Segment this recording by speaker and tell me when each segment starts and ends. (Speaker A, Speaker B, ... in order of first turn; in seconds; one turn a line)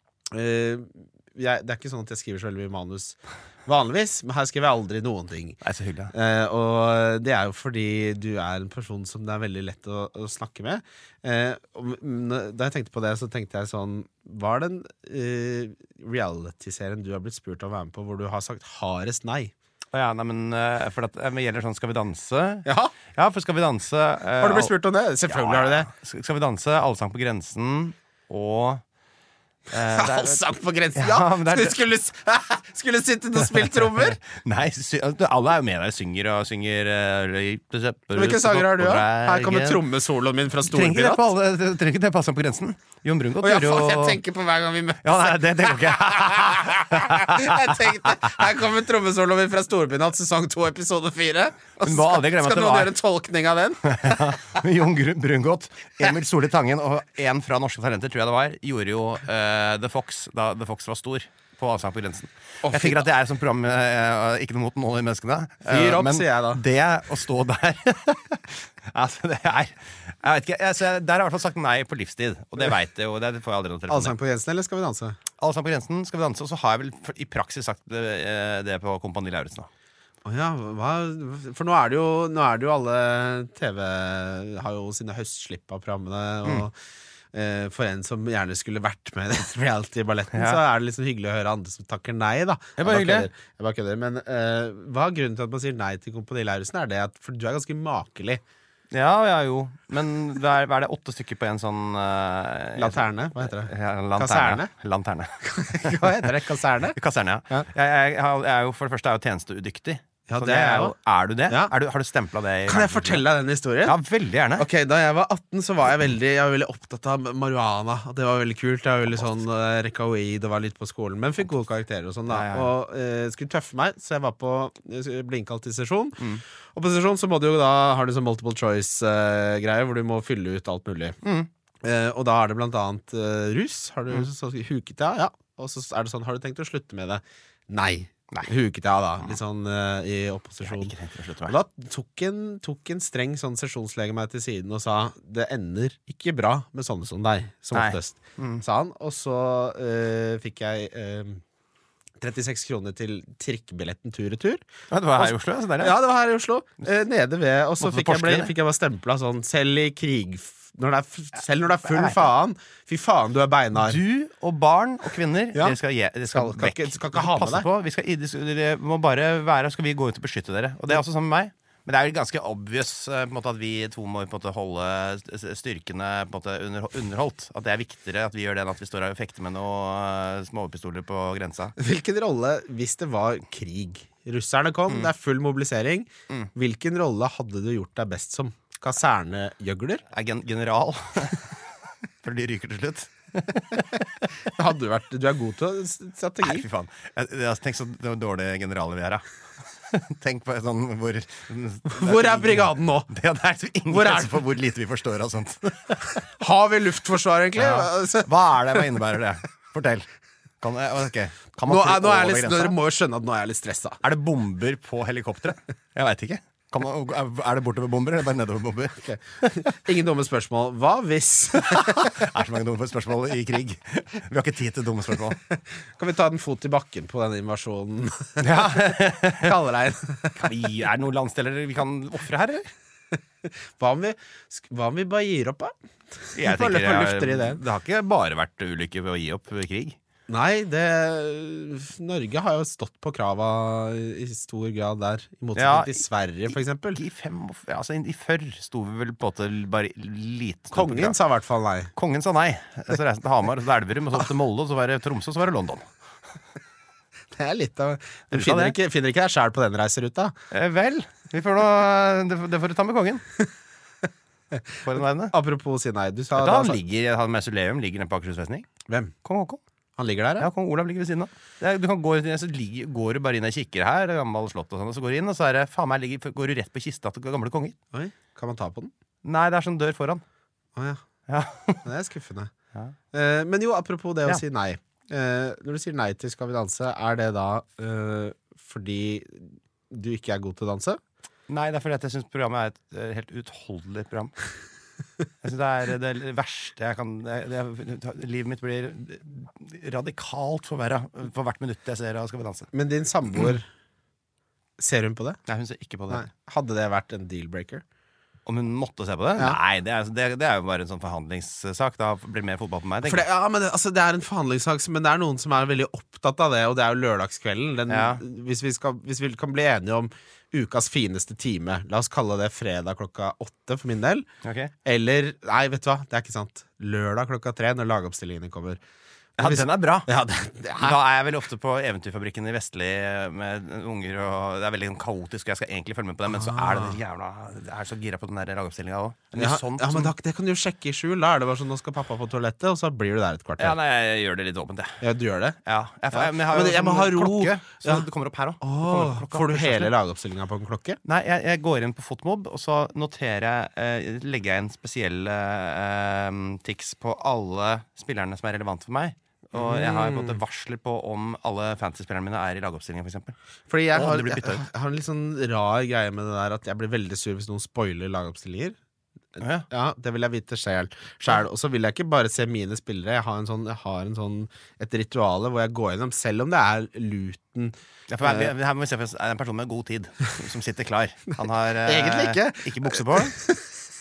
Speaker A: 0.3-5.6
Speaker B: 5.6-6.1
Speaker A: 6.1-19.5
Speaker B: 19.9-24.7
Speaker A: 22.6-23.0
Speaker A: 24.4-25.9
Speaker B: 25.3-28.8
Speaker B: 29.7-30.4
Speaker A: 29.8-34.2
Speaker B: 30.9-31.8
Speaker B: 33.4-39.9
Speaker A: 38.1-41.3
Speaker B: 40.6-44.2
Speaker A: 43.4-54.6
Speaker B: 45.0-48.3
Speaker B: 51.8-53.0
Speaker B: 53.8-74.2
Speaker A: 62.6-63.1
Speaker A: 65.7-66.6
Speaker A: 73.9-75.2
Speaker B: 75.4-79.7
Speaker A: 80.2-86.7
Speaker A: 87.3-98.4
Speaker B: 90.3-90.6
Speaker B: 92.8-93.3
Speaker B: 98.9-106.3
Speaker A: 102.8-104.7
Speaker A: 105.4-107.0
Speaker B: 107.0-113.3
Speaker A: 110.3-111.0
Speaker A: 111.5-111.7
Speaker A: 112.7-114.0
Speaker B: 113.8-114.7
Speaker A: 114.6-126.2
Speaker B: 122.3-122.7
Speaker A: 126.8-131.2
Speaker B: 131.2-131.5
Speaker A: 131.8-140.9
Speaker B: 140.6-141.6
Speaker A: 141.5-151.4
Speaker B: 147.7-148.6
Speaker A: 152.2-154.6
Speaker B: 154.9-156.0
Speaker A: 155.2-164.0
Speaker B: 157.8-158.5
Speaker B: 161.8-162.3
Speaker B: 163.8-181.8
Speaker A: 166.3-167.7
Speaker A: 181.8-190.0
Speaker B: 190.1-191.6
Speaker B: 192.2-194.1
Speaker A: 194.4-196.7
Speaker B: 196.4-199.2
Speaker B: 199.9-206.2
Speaker A: 201.9-203.1
Speaker A: 203.9-204.4
Speaker A: 206.3-208.9
Speaker B: 207.6-210.1
Speaker B: 210.6-212.8
Speaker A: 211.7-214.0
Speaker B: 214.0-219.7
Speaker A: 219.0-222.1
Speaker B: 221.6-225.4
Speaker A: 225.5-230.5
Speaker B: 228.4-229.6
Speaker B: 230.4-232.7
Speaker A: 233.2-237.6
Speaker B: 236.4-240.0
Speaker A: 240.3-247.0
Speaker B: 245.6-246.0
Speaker B: 246.5-251.2
Speaker A: 250.7-251.9
Speaker B: 252.0-255.9
Speaker A: 257.4-260.4
Speaker B: 258.3-258.8
Speaker B: 260.5-263.2
Speaker B: 264.8-265.4
Speaker A: 265.3-266.8
Speaker B: 266.4-268.7
Speaker A: 268.9-269.1
Speaker B: 269.2-269.6
Speaker A: 270.0-270.5
Speaker B: 270.4-277.8
Speaker A: 277.9-278.9
Speaker B: 279.2-280.2
Speaker A: 280.8-281.1
Speaker B: 281.3-281.9
Speaker A: 281.8-282.5
Speaker A: 283.1-291.0
Speaker B: 291.5-294.3
Speaker B: 295.4-302.7
Speaker A: 302.7-303.7
Speaker A: 304.8-305.4
Speaker B: 305.5-306.3
Speaker A: 306.1-307.8
Speaker B: 308.5-313.3
Speaker A: 313.0-324.3
Speaker B: 317.9-318.2
Speaker B: 324.4-324.7
Speaker A: 324.8-328.8
Speaker B: 329.4-330.1
Speaker A: 329.4-331.0
Speaker B: 330.8-340.1
Speaker A: 336.3-337.0
Speaker A: 339.4-343.8
Speaker B: 343.6-345.0
Speaker A: 345.0-345.6
Speaker B: 345.6-349.9
Speaker A: 346.1-348.1
Speaker A: 348.6-351.0
Speaker B: 351.0-363.3
Speaker A: 359.6-360.4
Speaker A: 363.7-368.8
Speaker B: 363.9-364.6
Speaker A: 369.4-378.5
Speaker B: 369.4-369.7
Speaker B: 378.1-383.4
Speaker A: 381.9-383.7